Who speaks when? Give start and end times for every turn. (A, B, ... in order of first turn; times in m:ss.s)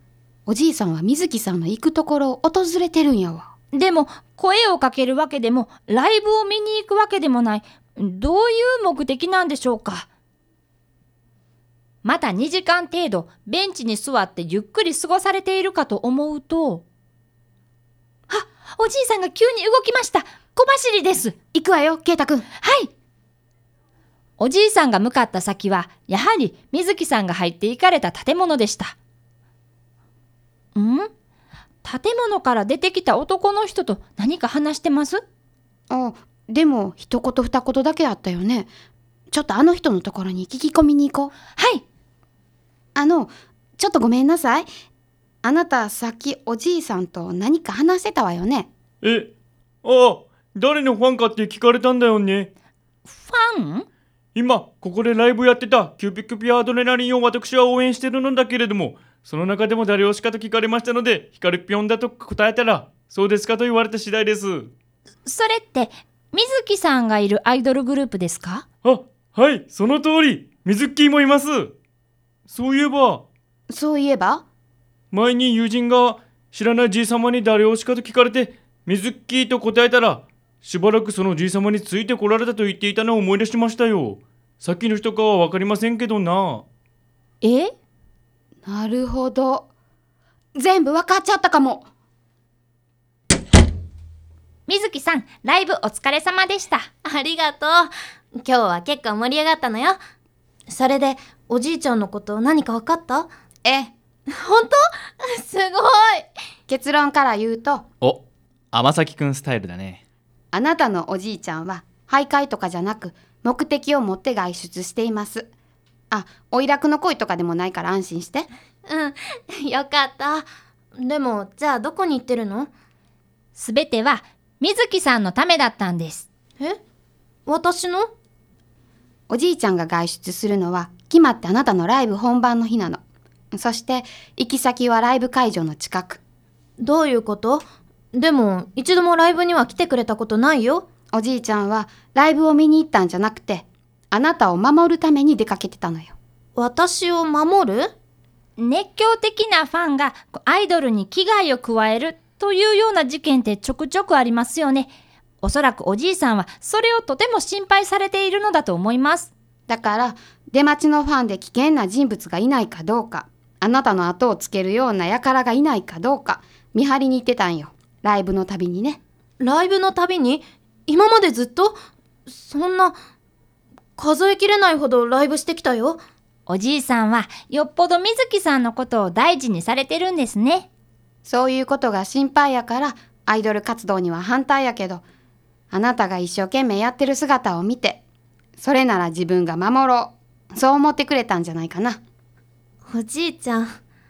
0:00.5-0:03.5 A
0:03.7-0:10.1 B
0:12.0-0:16.8 B
0:18.3-0:21.4 B
0:21.5-0:22.4 A
0:22.6-0:22.9 B
0:24.4-0:29.0 B
0:30.7-0:31.1 B
0:31.8-0:35.2 B
0:35.9-0:38.7 A
0:39.3-0:41.3 A
0:41.6-0:41.8 B
0:43.0-0:44.7 A
0:45.4-0:48.7 A
0:49.0-0:49.3 C
0:49.8-0:52.5 C
0:53.1-0:53.8 B
0:54.3-1:04.7 C
1:05.2-1:08.6 B
1:08.8-1:11.7 C
1:12.5-1:13.2 C
1:13.7-1:14.4 A
1:15.1-1:26.6 C
1:27.4-1:27.7 B
1:28.6-1:29.7 A
1:30.6-1:31.9 A
1:34.7-1:36.9 B
1:37.0-1:40.0 D
1:40.7-1:43.3 D
1:43.6-1:43.9 A
1:44.4-1:46.3 D
1:46.7-1:47.8 A
1:48.0-1:50.0 E
1:50.5-1:55.5 A
1:56.1-1:58.5 A
1:58.8-2:00.5 D
2:01.0-2:02.7 D
2:03.6-2:06.3 B
2:07.5-2:08.1 D
2:09.3-2:13.0 A
2:13.5-2:16.2 A
2:16.8-2:20.9 D
2:21.1-2:26.1 A
2:26.6-2:27.9 D
2:28.6-2:39.3 B
2:39.7-2:49.0 A
2:49.4-2:53.0 D
2:54.0-2:56.0 D
2:56.5-3:00.7 B
3:01.2-3:05.0 A
3:05.7-3:08.0 A
3:08.6-3:12.0 A
3:12.9-3:13.7 D